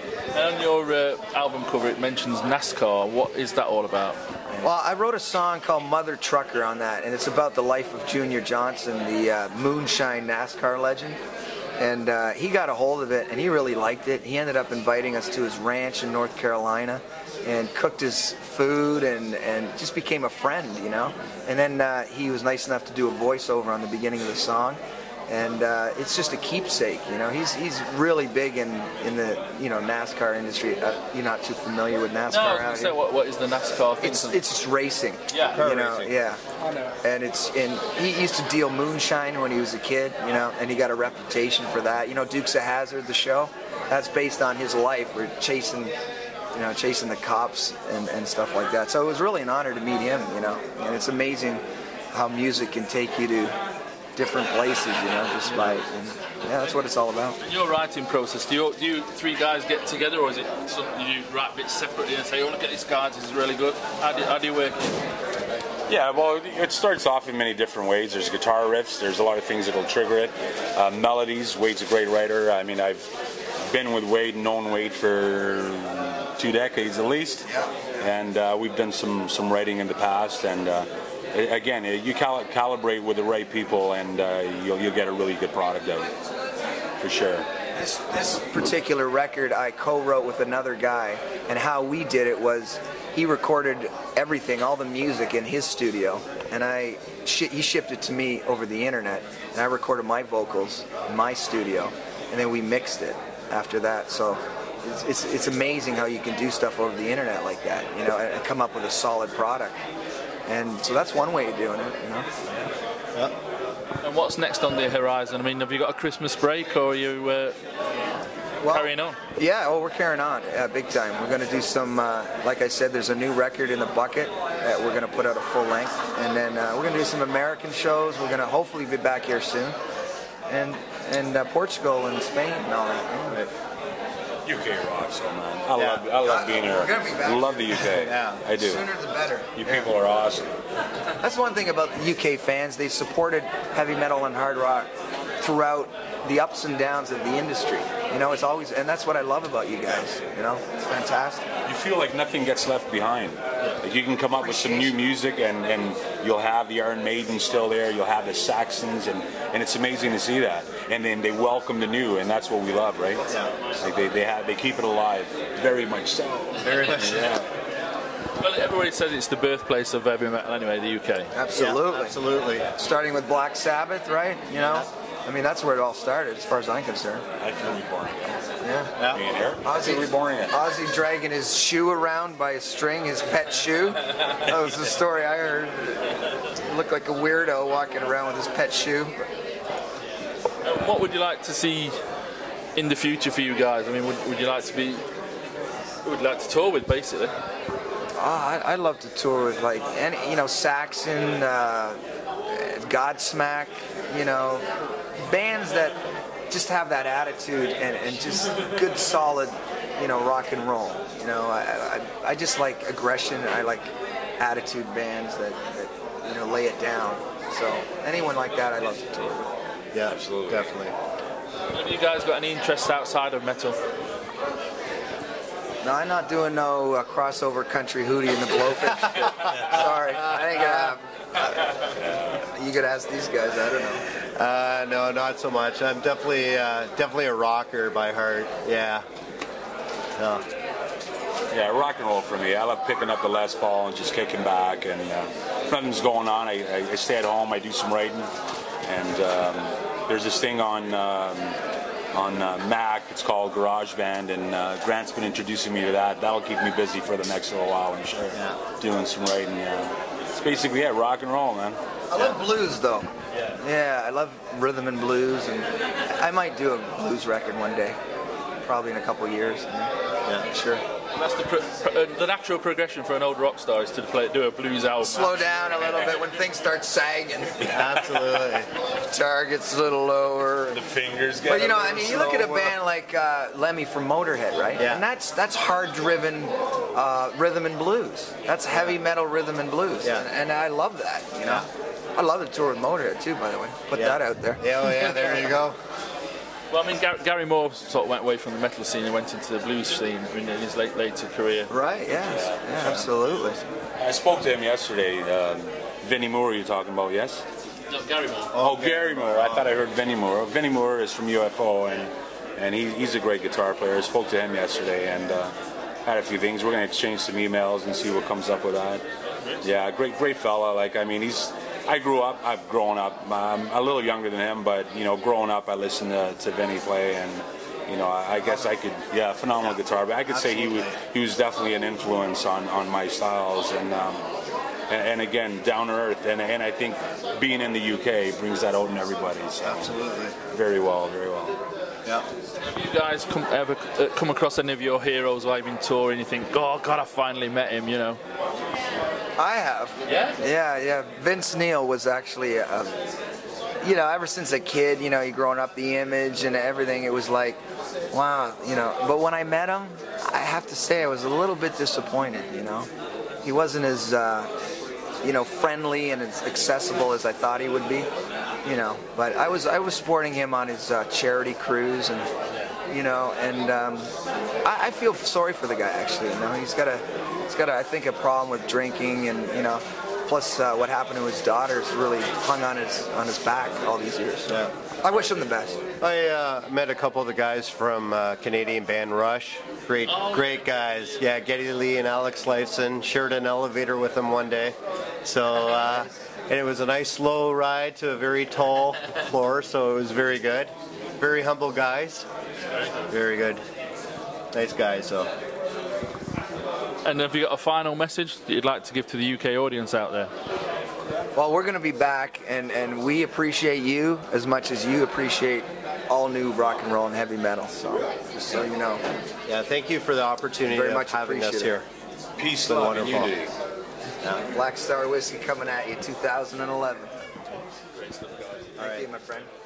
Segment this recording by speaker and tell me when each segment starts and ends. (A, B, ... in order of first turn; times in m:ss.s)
0:00.3-0:04.2 A
0:04.6-0:11.2 B
0:11.8-0:33.0 B
0:32.3-0:34.4 A
0:34.0-0:36.4 B
0:35.3-0:35.6 A
0:35.5-0:36.1 C
0:37.0-0:45.9 B
0:46.5-0:53.5 B
0:54.2-0:57.4 B
0:57.4-1:04.9 A
1:05.9-1:26.1 D
1:17.5-1:18.0 B
1:27.0-1:27.5 D
1:27.7-1:49.8 B
1:50.5-1:52.3 B
1:54.0-1:57.6 A
1:58.6-2:09.8 B
1:58.6-1:59.2 A
2:10.5-2:13.4 B
2:14.4-2:18.8 D
2:15.8-2:16.1 C
2:16.2-2:17.8 B
2:17.8-2:18.4 C
2:18.5-2:19.9 B
2:19.5-2:20.6 D
2:21.2-2:31.5 B
2:31.6-2:47.5 D
2:34.4-2:34.8 B
2:43.3-2:43.5 C
2:46.6-2:47.4 C
2:48.4-2:51.3 A
2:51.3-2:52.2 B
2:51.5-2:52.7 C
2:52.7-2:57.2 B
2:57.4-2:58.4 D
2:58.6-2:59.0 B
2:59.1-3:00.6 D
2:59.6-3:09.1 B
3:10.6-3:12.0 A
3:12.7-3:15.0 A
3:16.0-3:17.3 A
3:18.2-3:24.6 B
3:25.2-3:26.0 B
3:26.5-3:39.5 B
3:39.9-3:40.9 C
3:40.0-3:40.7 D
3:41.7-3:43.8 A
3:45.8-3:54.0 B
3:49.2-3:49.7 C
3:54.3-3:59.0 C
4:00.2-4:00.4 C
4:01.5-4:08.3 D
4:08.8-4:11.6 D
4:12.1-4:21.8 D
4:18.3-4:18.6 C
4:22.1-4:28.0 B
4:28.6-4:29.9 B
4:30.5-4:30.8 B
4:31.1-4:36.0 A
4:35.0-4:37.8 B
4:37.6-4:38.7 C
4:37.7-4:38.3 D
4:39.0-4:40.8 B
4:40.7-4:42.8 D
4:41.4-4:55.5 B
4:44.8-4:45.0 C
4:48.7-4:49.0 C
4:50.0-4:50.3 C
4:53.9-4:55.8 C
4:56.7-5:01.7 A
5:01.7-5:03.6 B
5:02.1-5:03.1 D
5:04.0-5:07.4 D
5:07.9-5:08.6 A
5:08.5-5:09.7 C
5:08.5-5:15.5 D
5:16.0-5:19.0 D
5:19.6-5:34.3 D
5:28.4-5:28.7 C
5:30.3-5:31.0 C
5:34.9-5:41.6 D
5:39.6-5:40.3 C
5:42.6-5:48.2 A
5:49.4-5:52.9 B
5:50.1-5:50.4 A
5:53.8-6:02.9 B
6:03.4-6:04.5 B
6:05.2-6:08.1 B
6:08.6-6:12.3 B
6:12.9-6:14.1 B
6:14.6-6:25.8 B
6:26.0-6:42.3 C
6:30.1-6:30.6 A
6:43.1-6:43.6 C
6:44.5-6:45.3 C
6:47.0-6:50.3 A
6:51.3-6:59.0 B
6:59.4-7:01.9 C
7:00.7-7:01.8 B
7:02.4-7:03.5 D
7:02.6-7:03.4 C
7:04.2-7:04.5 C
7:04.5-7:07.2 B
7:08.0-7:08.6 A
7:08.8-7:09.5 B
7:08.8-7:09.1 C